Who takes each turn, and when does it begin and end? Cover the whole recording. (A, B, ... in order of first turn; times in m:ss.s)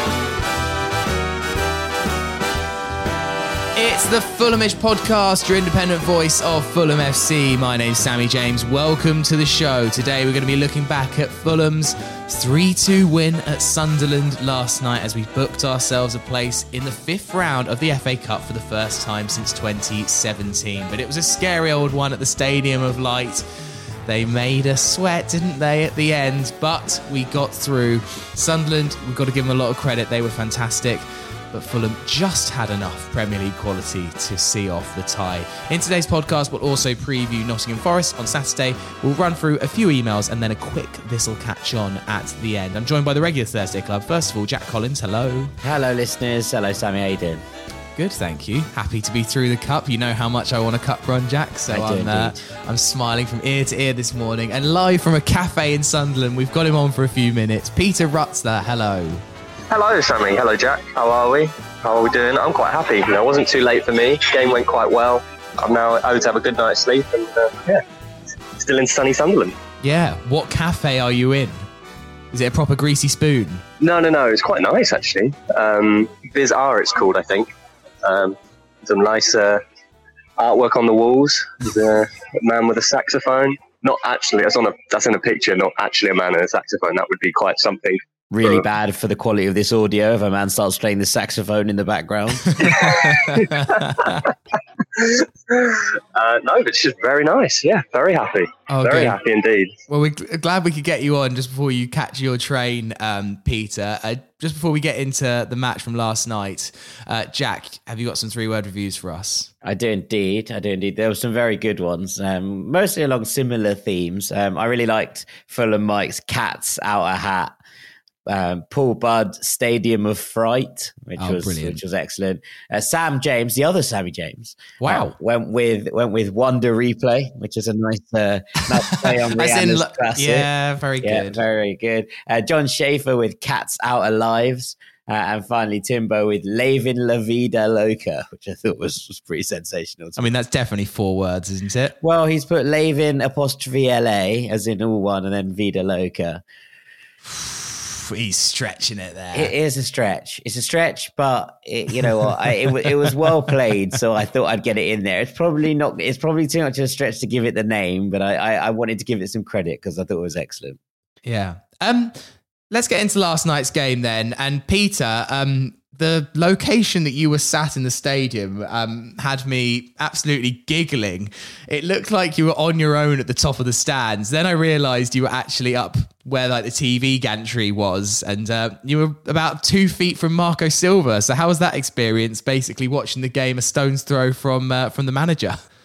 0:03.8-0:23.5 A
0:24.0-0:45.5 A
0:45.6-0:47.4 B
0:48.0-0:59.2 A
0:51.7-0:52.4 B
0:59.7-1:07.8 C
1:08.6-1:09.6 C
1:09.8-1:11.7 A
1:12.3-1:13.6 A
1:13.8-1:17.5 C
1:18.0-1:19.6 C
1:20.4-1:28.6 C
1:28.3-1:32.8 B
1:32.6-1:34.1 C
1:32.6-1:34.2 A
1:35.0-1:39.7 C
1:38.7-1:39.2 A
1:39.9-1:49.5 A
1:49.6-1:57.6 B
1:58.3-2:10.5 B
2:01.2-2:01.8 A
2:04.8-2:05.1 A
2:08.6-2:11.4 A
2:11.0-2:20.3 B
2:20.2-2:22.0 A
2:22.0-2:26.4 B
2:27.2-2:29.5 A
2:29.3-2:40.8 B
2:32.7-2:33.1 A
2:41.2-3:05.6 A